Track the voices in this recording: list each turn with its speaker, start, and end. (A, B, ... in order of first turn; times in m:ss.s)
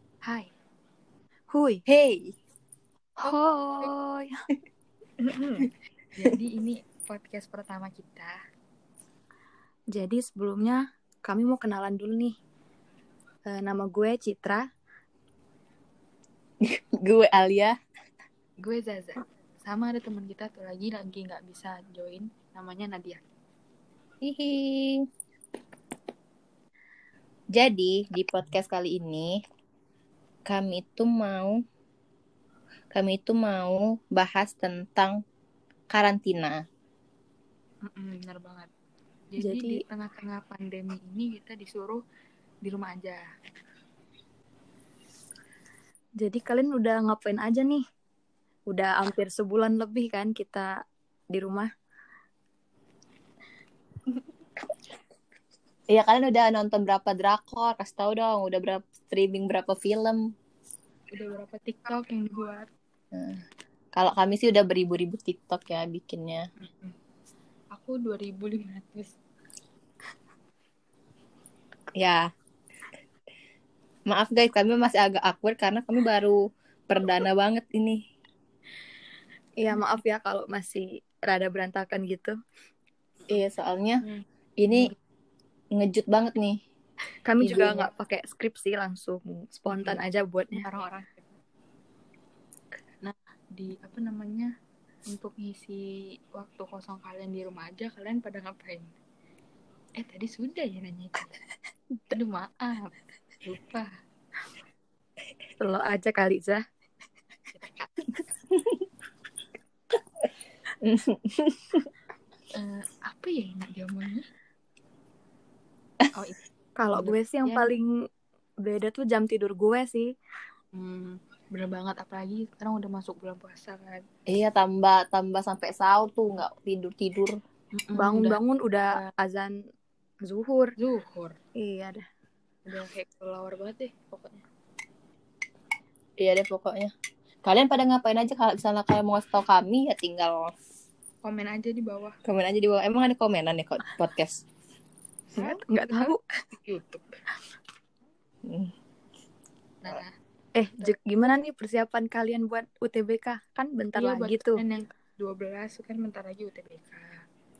0:00.2-0:00.5 A
0:01.5-0:01.8 B
0:01.9-0:02.3 C
0:03.2-0:04.3 B
0:03.2-0:03.9 A
0:05.2-0:08.4 A
0:09.9-0:12.3 B
0:13.5-0:14.6 B
0:16.6-0:17.7 C
0:18.6-0:23.2 A
0:24.2-0:25.0 C
0:27.5-0:29.3 C
0:30.5-0:31.6 C
0:32.9-0:35.1 C
0:35.9-0:36.6 C
0:37.8-0:38.7 A
0:39.3-0:42.0 A
0:39.4-0:39.8 B
0:42.6-0:43.2 A
0:46.2-0:47.8 B
0:48.7-0:50.7 B
0:51.3-0:51.7 B
0:55.9-1:00.2 C
1:01.1-1:02.7 A
1:03.1-1:03.4 C
1:03.9-1:06.4 C
1:06.6-1:06.9 A
1:07.7-1:09.2 A
1:12.0-1:12.3 C
1:14.1-1:16.4 C
1:16.9-1:18.0 C
1:19.6-1:22.3 B
1:23.3-1:24.0 C
1:24.0-1:24.9 A
1:24.6-1:24.9 C
1:25.8-1:26.6 C
1:27.2-1:30.6 B
1:27.4-1:27.9 C
1:29.7-1:31.3 A
1:33.0-1:34.5 A
1:35.1-1:38.9 A
1:40.0-1:41.4 A
1:42.1-1:43.9 A
1:45.6-1:46.6 B
1:47.5-1:48.1 A
1:50.8-1:51.9 C
1:52.5-1:54.2 A
1:56.8-1:57.9 B
1:56.9-1:57.7 A
1:58.6-2:00.1 B
2:00.7-2:04.0 A
2:04.3-2:07.4 C
2:07.8-2:08.4 A
2:07.9-2:09.5 B
2:10.2-2:10.7 B
2:10.8-2:11.4 A
2:11.6-2:12.0 B
2:12.6-2:14.4 A
2:16.2-2:16.9 C
2:17.4-2:20.5 C
2:21.2-2:22.2 A
2:22.2-2:24.4 C
2:25.3-2:27.1 A
2:25.4-2:26.2 B
2:28.4-2:28.7 C
2:29.8-2:30.1 A
2:30.5-2:34.6 B
2:30.8-2:31.4 A
2:33.9-2:37.2 A